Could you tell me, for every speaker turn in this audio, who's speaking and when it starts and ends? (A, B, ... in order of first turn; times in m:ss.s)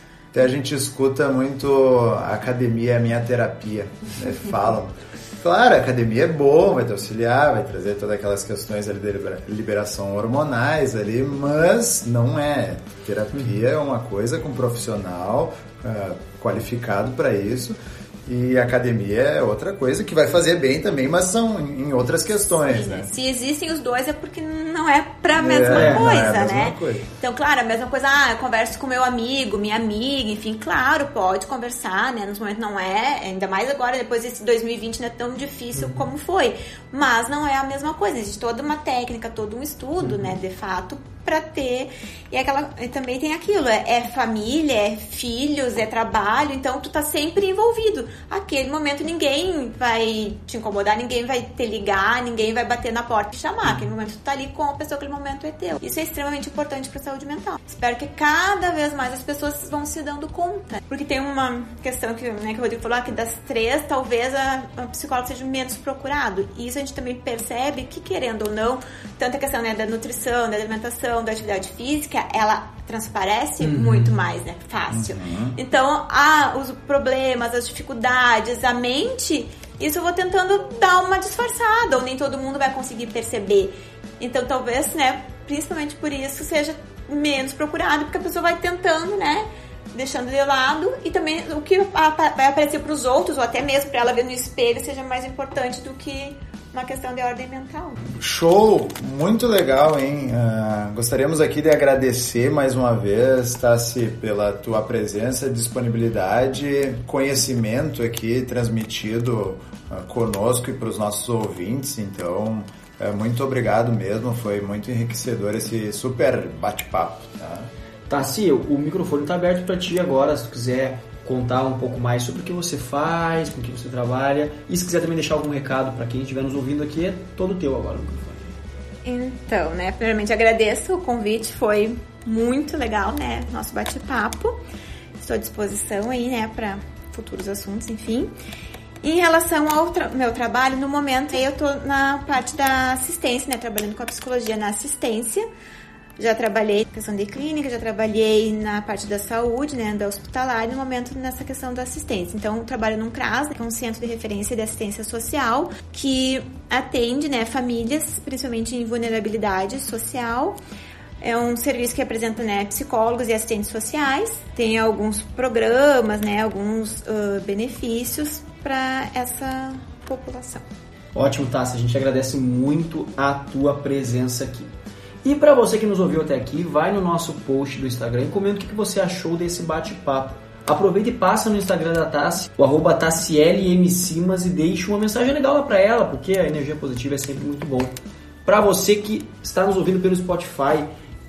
0:00.3-0:23.1 A
0:22.3-1:38.0 B
0:25.3-0:27.1 A
0:25.7-0:26.1 C
1:13.6-1:14.1 C
1:14.9-1:15.6 A
1:38.1-1:57.7 A
1:58.1-2:08.5 C
2:09.0-2:14.6 B
2:15.2-2:18.3 B
2:19.0-2:25.4 B
2:26.2-2:40.6 B
2:41.2-2:50.6 B
2:51.1-2:54.7 C
2:55.2-3:07.9 C
3:08.4-3:10.9 C